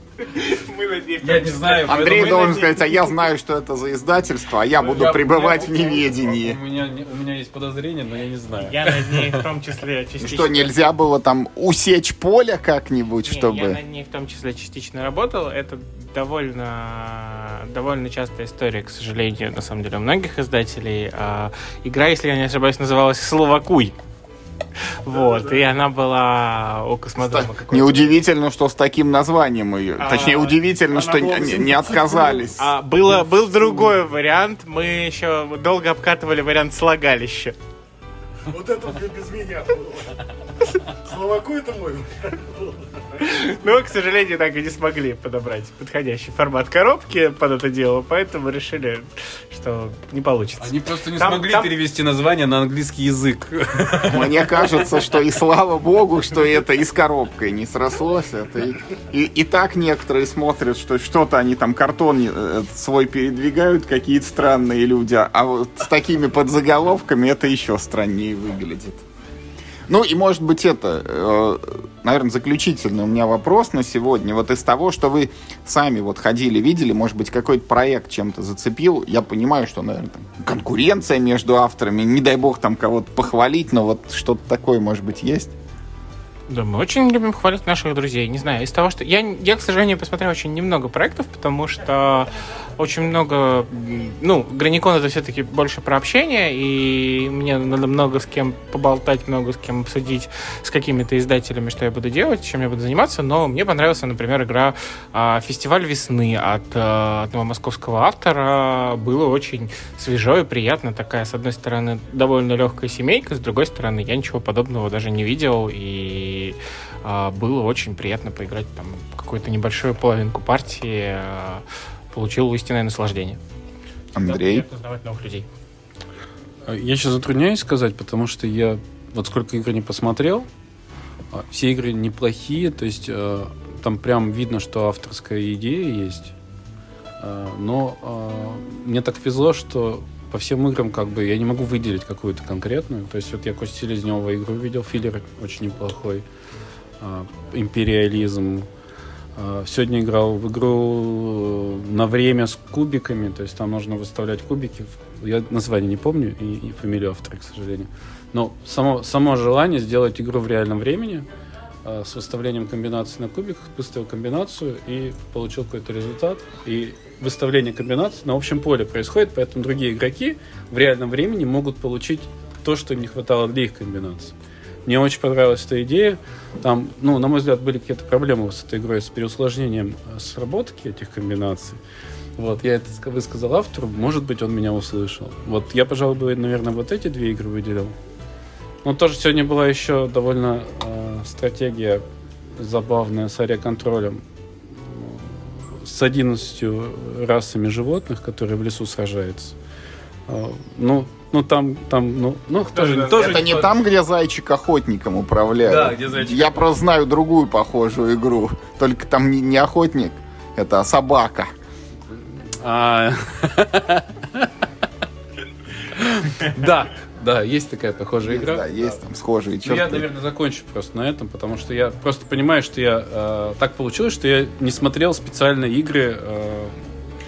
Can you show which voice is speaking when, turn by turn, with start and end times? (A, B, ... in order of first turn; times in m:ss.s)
0:00.3-0:03.2 A
0:01.2-0:02.6 B
0:01.8-0:06.6 C
0:04.8-0:09.4 B
0:08.6-0:10.7 A
0:10.2-0:13.8 C
0:13.2-0:23.9 A
0:25.0-0:28.2 A
0:27.2-0:32.7 C
0:30.0-0:30.5 A
0:30.9-0:32.5 D
0:32.6-0:37.6 A
0:38.5-0:40.0 D
0:40.9-0:42.9 D
0:43.2-0:51.8 A
0:50.6-0:54.2 B
0:54.1-1:09.0 C
1:09.9-1:25.5 C
1:26.5-2:03.4 A
2:04.1-2:04.6 C
2:04.2-2:05.4 A
2:06.7-2:10.5 B
2:11.3-2:16.3 B
2:17.2-2:26.2 B
2:27.0-2:28.7 B
2:29.4-2:41.3 B
2:41.8-2:54.3 B
2:54.8-3:01.8 B
3:02.4-3:07.9 B
3:08.8-3:12.0 B
3:12.6-3:14.2 B
3:14.8-3:19.5 B
3:20.3-3:23.7 B
3:23.0-3:31.5 C
3:25.6-3:26.6 B
3:32.6-3:34.0 B
3:36.0-3:38.9 B
3:38.2-3:40.1 C
3:39.6-3:46.7 B